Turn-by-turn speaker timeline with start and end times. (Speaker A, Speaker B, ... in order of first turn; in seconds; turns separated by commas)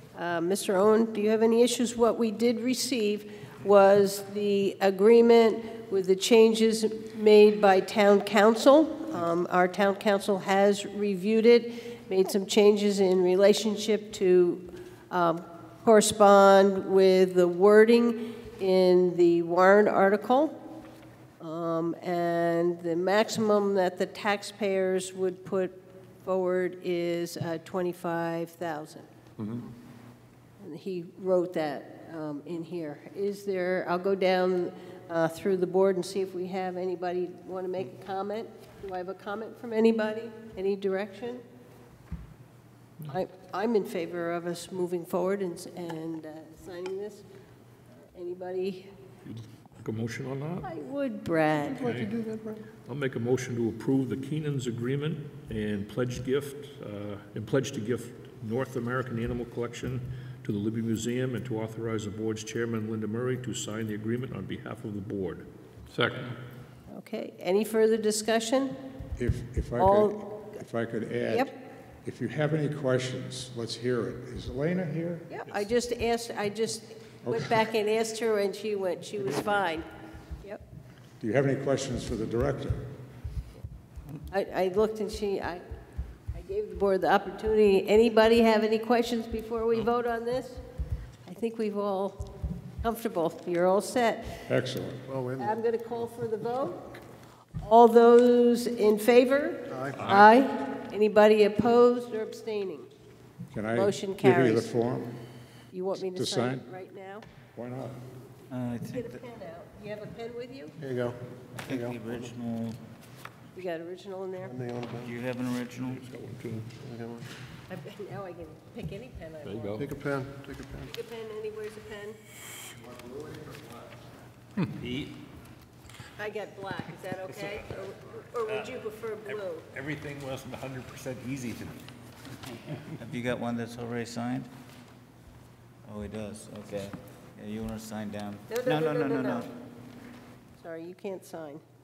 Speaker A: 0.1-20.6, Speaker A: 21.4-29.1, Speaker B: 29.4-29.7, Speaker A: 30.6-41.4, Speaker A: 43.0-47.3, Speaker A: 48.1-48.9, Speaker C: 49.2-50.7, Speaker A: 50.6-51.9, Speaker B: 51.8-52.6, Speaker C: 51.8-52.2, Speaker C: 52.9-66.4, Speaker A: 66.9-68.8, Speaker D: 69.2-71.5, Speaker A: 69.8-70.5, Speaker D: 72.0-75.3, Speaker A: 75.3-79.9, Speaker D: 77.2-77.6, Speaker D: 81.2-82.9, Speaker A: 84.3-85.6, Speaker A: 86.3-90.6, Speaker A: 91.3-94.4, Speaker D: 94.5-95.1, Speaker B: 95.1-95.5, Speaker A: 95.4-97.0, Speaker A: 97.6-102.9, Speaker B: 99.7-100.2, Speaker D: 103.5-105.2, Speaker A: 103.7-104.7, Speaker A: 105.7-107.2, Speaker D: 106.1-106.7, Speaker D: 107.5-108.0, Speaker E: 108.5-109.2, Speaker A: 108.9-110.8, Speaker B: 110.8-112.1, Speaker E: 111.6-112.8, Speaker A: 113.5-114.6, Speaker B: 114.5-115.1, Speaker E: 115.0-116.0, Speaker C: 115.9-116.7, Speaker B: 116.8-117.3, Speaker A: 117.7-119.9, Speaker C: 119.4-119.9, Speaker B: 119.8-120.9, Speaker A: 120.8-122.2, Speaker B: 122.9-123.6, Speaker F: 124.8-125.2, Speaker A: 126.2-129.7, Speaker F: 129.7-131.8, Speaker E: 132.9-134.5, Speaker E: 135.8-139.5, Speaker A: 138.5-139.5, Speaker A: 140.6-141.6